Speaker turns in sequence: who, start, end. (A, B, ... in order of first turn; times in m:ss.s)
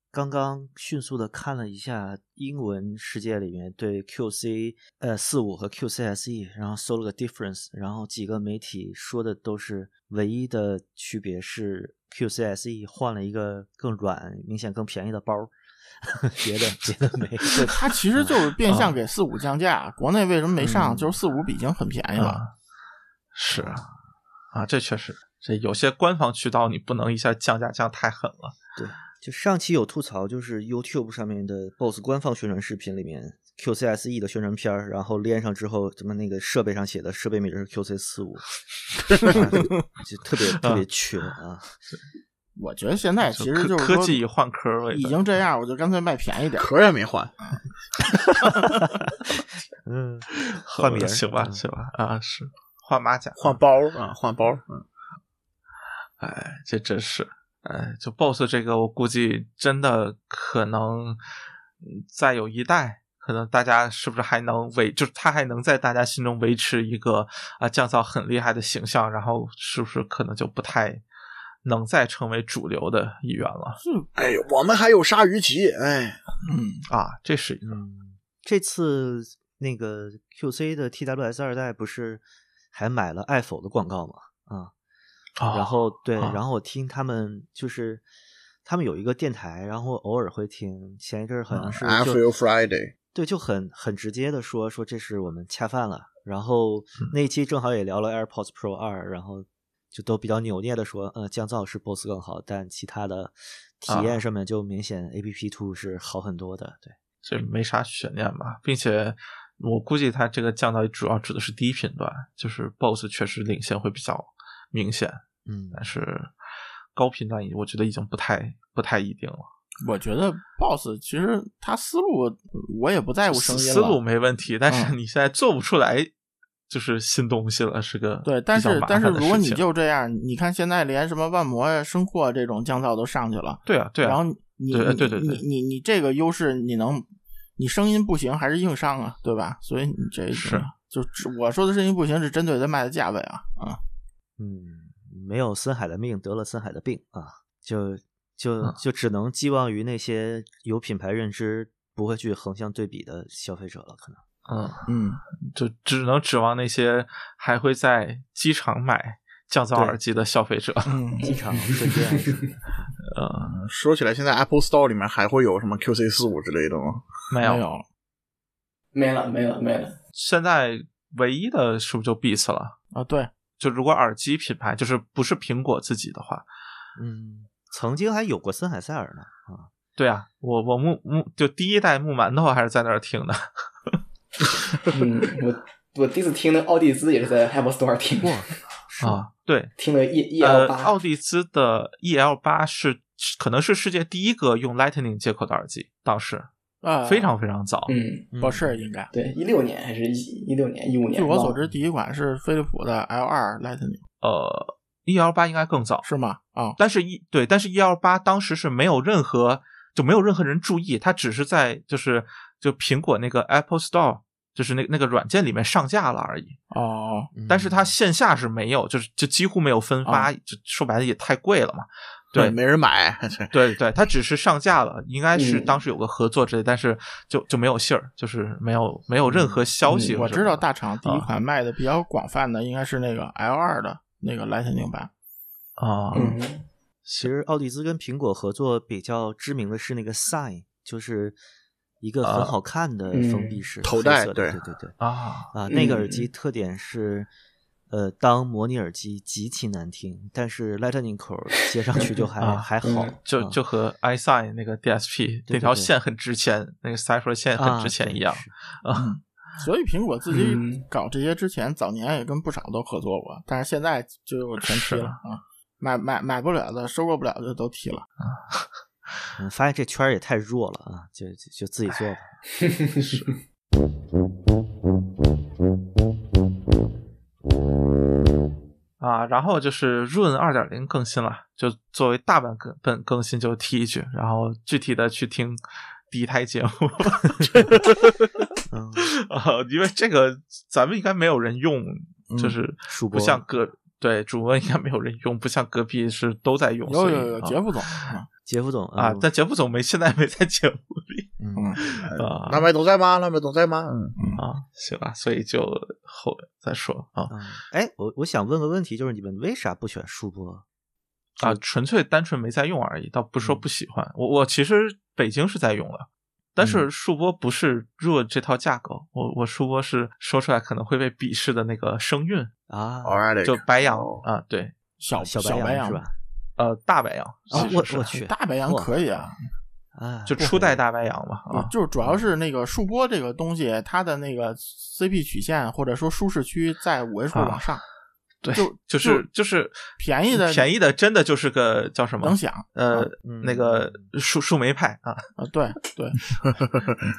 0:00.1-0:18.4 A
0:17.6-0:22.4 B
0:20.6-0:21.1 A
0:22.2-0:22.5 C
0:23.3-0:23.8 C
0:23.5-0:24.0 A
0:24.5-0:28.6 C
0:28.8-0:38.5 A
0:39.2-0:41.8 A
0:40.5-0:40.8 C
0:42.6-0:44.2 B
0:43.2-0:45.2 C
0:44.9-0:46.7 B
0:46.6-0:47.3 D
0:48.6-0:51.6 A
0:50.7-0:53.6 C
0:53.4-0:54.8 D
0:56.2-1:01.2 C
1:01.8-1:11.0 C
1:11.6-1:13.8 C
1:13.8-1:14.1 B
1:14.2-1:16.2 D
1:16.5-1:16.8 B
1:16.9-1:17.8 C
1:17.6-1:24.7 A
1:25.4-1:26.4 C
1:25.5-1:28.0 A
1:28.6-1:32.2 A
1:31.6-1:32.9 D
1:33.1-1:47.0 A
1:43.9-1:44.2 C
1:47.2-1:56.3 C
1:55.4-1:55.9 A
1:56.9-1:59.5 C
1:59.8-2:04.0 B
2:03.3-2:06.1 C
2:04.7-2:04.9 B
2:06.7-2:09.6 C
2:08.2-2:17.0 B
2:13.6-2:15.4 C
2:17.6-2:23.8 B
2:20.3-2:20.7 C
2:24.4-2:34.2 A
2:34.5-2:34.8 C
2:34.9-2:35.2 B
2:35.4-2:41.0 C
2:40.9-2:41.2 B
2:41.2-2:42.9 A
2:41.3-2:42.4 E
2:43.1-2:43.6 C
2:43.4-2:47.0 D
2:47.3-2:47.6 C
2:47.4-2:47.8 B
2:48.9-2:50.0 E
2:50.1-2:52.8 C
2:52.9-2:53.3 B
2:53.6-2:56.4 C
2:57.0-2:59.7 A
3:00.0-3:04.0 C
3:04.9-3:08.4 E
3:08.2-3:09.2 A
3:09.0-3:09.7 C
3:09.8-3:10.9 E
3:10.4-3:16.5 C
3:16.8-3:17.3 B
3:17.0-3:17.9 C
3:17.9-3:18.3 E
3:18.3-3:18.8 A
3:18.4-3:19.1 B
3:19.1-3:21.6 E
3:21.1-3:24.0 B
3:24.2-3:26.0 C
3:26.0-3:26.8 B
3:26.8-3:36.6 C
3:36.7-3:37.3 B
3:37.3-3:37.9 A
3:37.5-3:42.6 C
3:42.3-3:43.5 D
3:43.5-3:51.3 C
3:45.3-3:45.8 E
3:49.2-3:49.7 A
3:49.8-3:50.2 E
3:50.1-3:55.1 B
3:55.8-3:56.4 C
3:56.1-3:56.6 E
3:57.0-3:57.3 C
3:57.2-4:01.4 A
4:02.0-4:05.0 A
4:02.2-4:02.5 C
4:03.1-4:03.6 E
4:03.8-4:04.6 D
4:05.0-4:05.5 C
4:05.5-4:07.3 A
4:05.7-4:06.3 E
4:07.9-4:13.6 A
4:12.4-4:12.7 C
4:12.8-4:13.2 E
4:13.2-4:19.1 C
4:15.5-4:15.9 A
4:17.6-4:18.5 A
4:18.9-4:28.0 B
4:20.3-4:20.8 E
4:24.6-4:25.2 C
4:28.2-4:28.7 C
4:29.4-4:32.4 A
4:32.6-4:32.9 E
4:33.0-4:33.3 C
4:39.0-4:48.4 C
4:48.7-4:49.1 A
4:49.0-4:58.0 C
4:52.3-4:52.6 B
4:52.9-4:53.4 A
4:56.9-4:58.3 B
4:58.4-4:59.2 A
4:59.0-5:02.7 C
5:01.4-5:01.8 A
5:02.0-5:04.2 D
5:04.2-5:04.4 B
5:04.4-5:07.3 C
5:07.3-5:10.6 A
5:11.4-5:22.5 C
5:13.4-5:13.6 A
5:16.6-5:16.8 A
5:22.7-5:23.2 A
5:23.0-5:24.2 D
5:23.4-5:24.7 C
5:25.0-5:26.0 B
5:25.2-5:26.1 A
5:26.6-5:28.2 C
5:27.5-5:28.9 A
5:27.5-5:29.4 B
5:29.9-5:30.8 A
5:30.3-5:31.7 C
5:31.5-5:37.8 B
5:37.3-5:37.6 C
5:38.4-5:45.3 C
5:38.5-5:39.3 B
5:40.0-5:40.6 B
5:42.2-5:42.6 B
5:43.0-5:44.1 A
5:45.4-5:46.2 B